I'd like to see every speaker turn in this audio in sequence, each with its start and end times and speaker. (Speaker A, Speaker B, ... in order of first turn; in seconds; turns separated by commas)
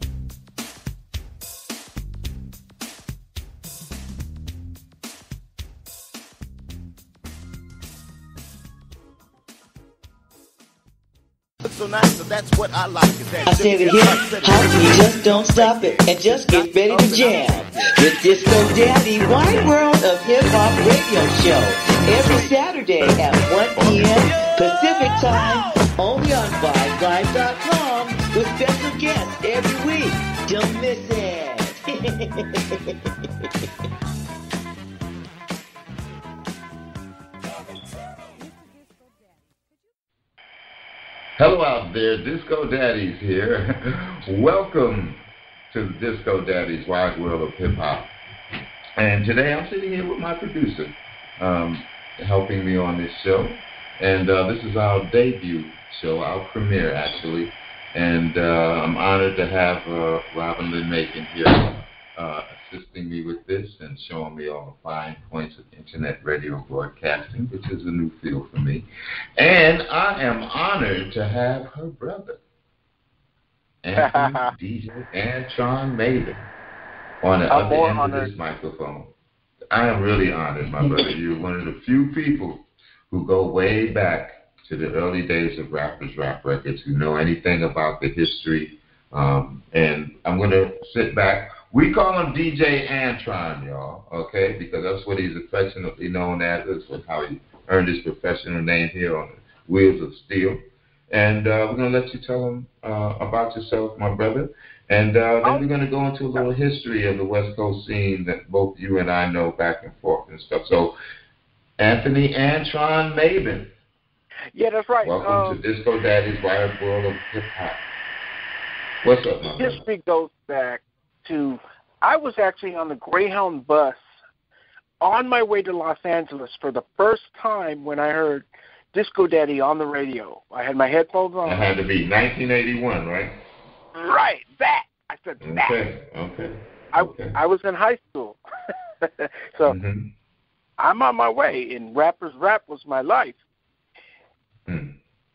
Speaker A: 11.7-18.1, Speaker B: 13.5-32.9, Speaker C: 41.4-48.1, Speaker C: 49.0-72.4, Speaker C: 73.8-76.5, Speaker D: 74.0-74.5, Speaker C: 77.2-79.1, Speaker D: 77.5-78.3, Speaker C: 79.7-110.9, Speaker C: 111.8-113.7, Speaker D: 114.5-115.6, Speaker C: 115.0-117.8, Speaker C: 119.0-119.8, Speaker D: 119.6-124.0, Speaker D: 125.0-131.7, Speaker C: 131.4-133.4, Speaker D: 133.9-135.8, Speaker C: 135.4-137.4, Speaker D: 136.9-138.4, Speaker D: 139.0-139.8, Speaker C: 139.7-140.1, Speaker D: 140.8-143.4, Speaker C: 144.7-145.0